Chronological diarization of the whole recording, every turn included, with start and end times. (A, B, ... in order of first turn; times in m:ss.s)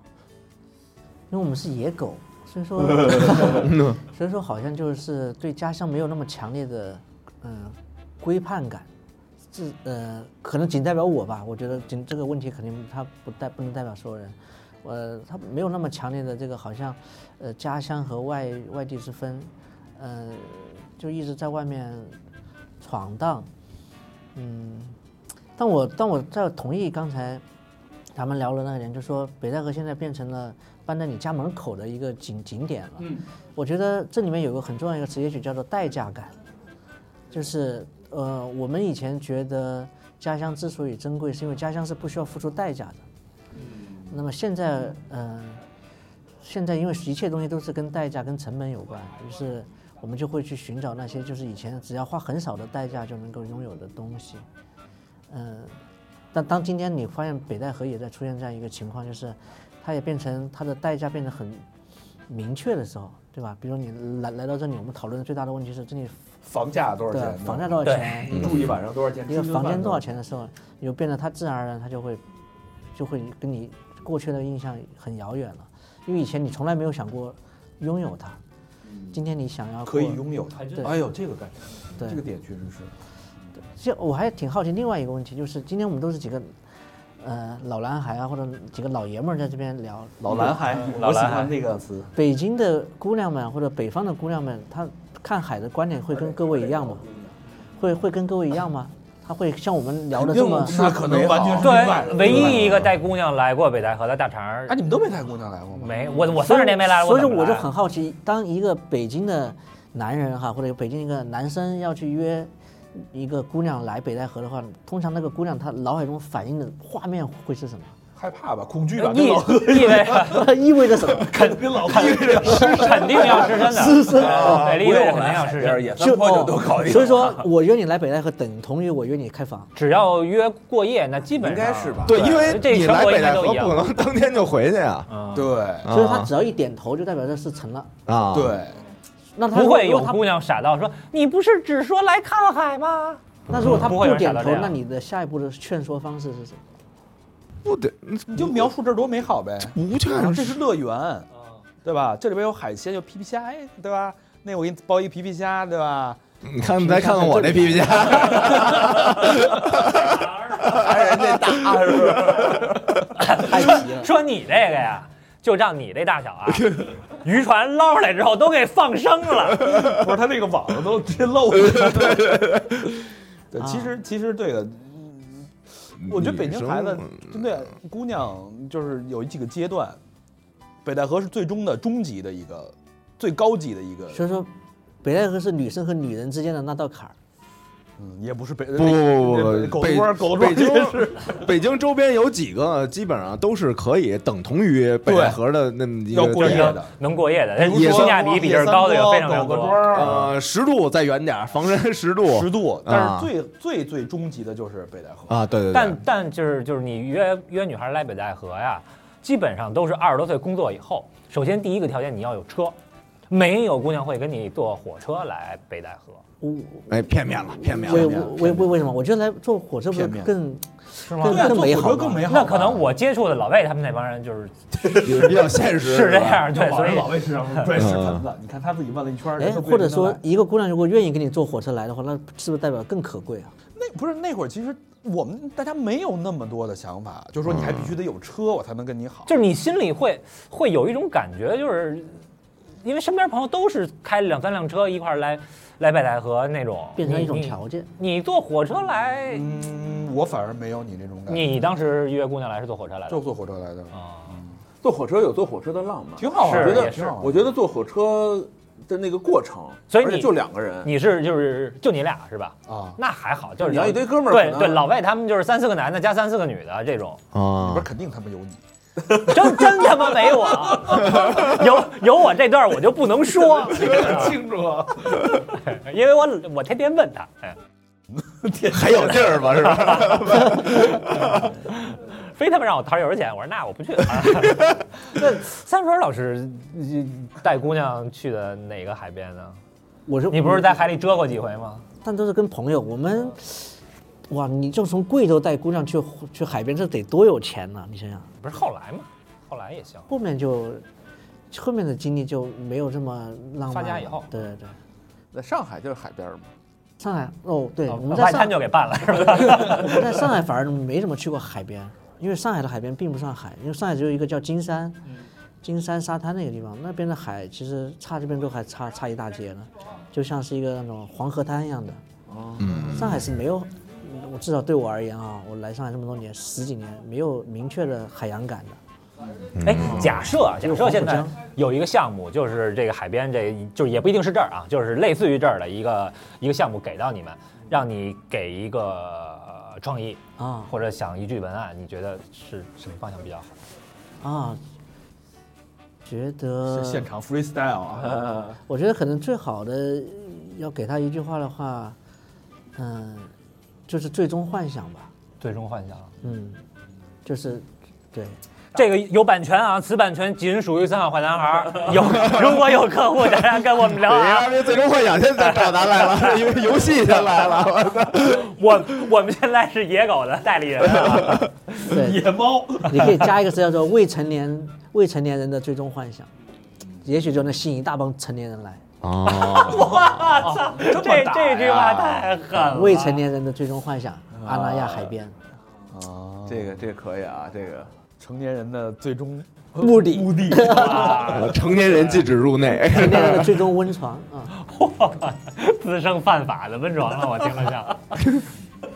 0:01.3-0:08.9 A
0:03.1-0:03.5 B
0:03.6-0:04.0 C
0:09.5-0:22.2 A
0:22.8-0:23.5 A
0:24.4-0:25.0 A
0:25.6-0:27.4 A
0:28.1-0:36.3 A
0:37.3-0:43.0 A
0:44.1-0:45.6 A
0:46.4-0:54.4 A
0:55.3-0:55.8 A
0:56.3-1:01.6 A
1:02.3-1:06.2 A
1:06.4-1:10.1 D
1:07.1-1:08.7 A
1:07.8-1:08.2 E
1:08.3-1:08.8 C
1:09.3-1:12.2 A
1:12.9-1:18.4 A
1:19.1-1:20.9 A
1:19.8-1:22.9 D
1:23.8-1:26.6 A
1:27.2-1:30.5 A
1:30.2-1:32.1 D
1:30.8-1:31.6 E
1:32.1-1:37.0 A
1:37.8-1:41.0 A
1:40.2-1:42.4 B
1:40.7-1:42.9 D
1:41.6-1:44.8 E
1:44.7-1:46.1 D
1:45.8-1:47.7 E
1:46.4-1:58.0 A
1:58.2-2:04.1 D
1:59.0-2:00.5 E
2:00.2-2:04.7 A
2:01.9-2:06.1 E
2:04.0-2:07.5 B
2:06.0-2:09.7 A
2:09.8-2:13.8 E
2:11.4-2:12.6 B
2:12.0-2:15.1 C
2:15.1-2:15.5 E
2:15.3-2:15.9 D
2:15.8-2:16.3 C
2:15.9-2:17.9 A
2:18.1-2:18.6 C
2:18.3-2:18.8 D
2:19.4-2:20.2 A
2:19.5-2:24.8 E
2:23.5-2:26.6 A
2:23.5-2:23.9 C
2:27.6-2:28.7 C
2:28.3-2:31.3 D
2:29.6-2:30.6 C
2:31.8-2:36.2 D
2:36.4-2:41.6 C
2:36.6-2:38.4 A
2:40.6-2:42.8 B
2:43.2-2:49.8 E
2:43.4-2:44.1 A
2:49.6-2:53.0 D
2:53.5-3:00.0 D
2:53.6-2:53.9 A
2:56.0-2:57.3 C
3:00.8-3:04.2 D
3:04.1-3:04.5 A
3:05.0-3:07.2 A
3:08.0-3:11.5 D
3:08.8-3:16.8 C
3:15.1-3:15.4 D
3:16.1-3:16.9 D
3:16.4-3:20.1 E
3:17.6-3:20.3 D
3:17.6-3:18.2 C
3:19.9-3:23.3 C
3:22.3-3:25.4 D
3:25.3-3:26.0 C
3:25.7-3:32.8 E
3:33.3-3:36.2 E
3:36.4-3:37.0 A
3:36.9-3:38.3 C
3:37.6-3:42.3 A
3:37.8-3:38.7 D
3:39.9-3:40.3 D
3:41.0-3:41.7 E
3:41.2-3:42.9 D
3:42.3-3:47.3 E
3:44.8-3:45.5 D
3:45.0-3:46.5 C
3:46.4-3:50.2 D
3:47.7-3:48.2 C
3:49.4-3:53.5 A
3:53.8-3:59.3 D
3:57.5-3:58.0 C
3:59.3-4:02.2 E
4:02.8-4:09.5 E
4:07.0-4:07.9 A
4:09.3-4:11.5 D
4:11.3-4:13.2 E
4:13.1-4:14.6 D
4:13.9-4:14.4 E
4:14.8-4:20.9 B
4:16.2-4:17.6 D
4:16.4-4:17.1 E
4:19.9-4:27.2 E
4:22.7-4:23.0 D
4:23.6-4:24.9 B
4:27.3-4:27.9 C
4:27.6-4:28.6 D
4:29.2-4:34.4 E
4:30.2-4:31.2 D
4:33.6-4:35.2 D
4:35.2-4:37.6 E
4:38.2-4:39.6 D
4:38.7-4:41.5 C
4:39.7-4:40.9 E
4:41.5-4:49.6 E
4:50.1-4:50.7 A
4:50.3-4:51.8 E
4:52.0-4:58.3 A
4:58.4-5:00.1 E
5:00.1-5:00.8 A
5:01.5-5:04.8 A
5:03.7-5:04.3 E
5:05.3-5:06.5 B
5:07.0-5:08.6 A
5:07.9-5:10.2 E
5:09.4-5:15.0 A
5:15.6-5:22.0 A
5:22.3-5:23.1 B
5:22.6-5:23.2 C
5:22.9-5:28.8 A
5:29.6-5:30.3 C
5:29.6-5:43.5 E
5:30.6-5:31.4 A
5:40.4-5:40.7 A
5:44.2-5:44.6 A
5:46.1-5:47.1 A
5:46.7-5:48.4 D
5:48.1-5:48.4 B
5:48.7-5:52.0 A
5:52.8-5:53.3 A
5:53.9-5:55.1 A
5:55.4-5:56.1 E
5:56.2-5:56.6 A
5:57.2-5:58.4 A
5:58.7-6:11.5 E
6:02.0-6:02.6 C
6:03.9-6:08.5 C
6:11.0-6:11.4 C
6:11.8-6:13.4 D
6:11.8-6:16.3 A
6:17.0-6:18.8 A
6:19.0-6:20.4 C
6:19.2-6:23.2 E
6:20.4-6:22.5 D
6:22.7-6:25.3 A
6:24.4-6:25.1 B
6:25.9-6:26.8 D
6:26.5-6:27.9 B
6:28.2-6:31.2 D
6:29.8-6:31.2 A
6:30.5-6:32.3 E
6:31.2-6:33.6 C
6:32.8-6:34.5 A
6:34.6-6:38.2 E